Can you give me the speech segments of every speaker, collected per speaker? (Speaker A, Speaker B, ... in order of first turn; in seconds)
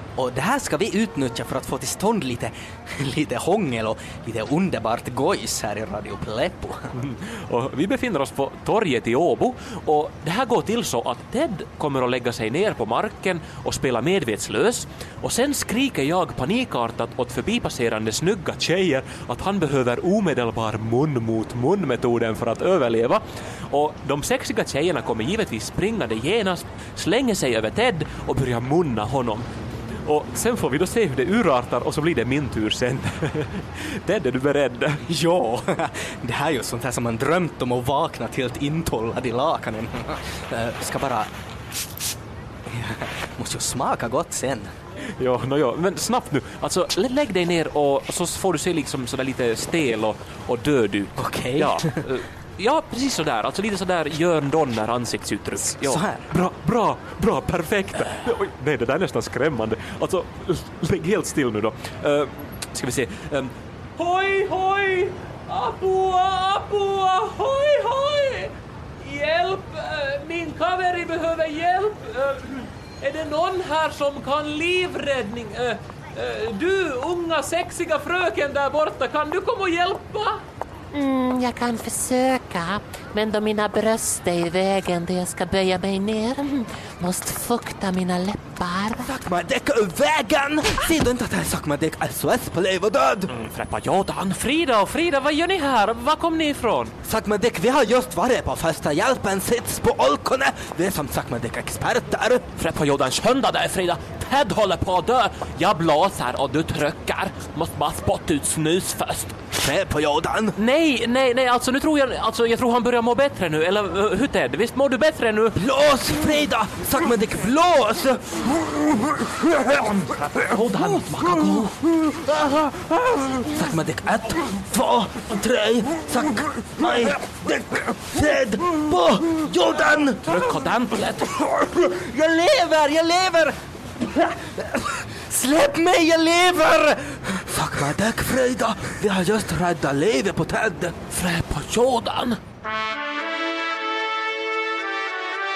Speaker A: 0.2-6.9, 35.1-41.3, 42.7-44.7, 51.2-52.0, 55.8-56.3, 89.0-93.3, 97.0-102.5, 109.6-110.6, 115.5-130.5, 131.2-141.0
Speaker B: 6.9-29.5, 30.1-35.0, 45.2-80.4, 93.3-96.9, 102.6-109.3, 110.6-115.6, 120.2-121.7, 130.2-131.3, 141.1-142.4
Speaker C: 80.9-89.0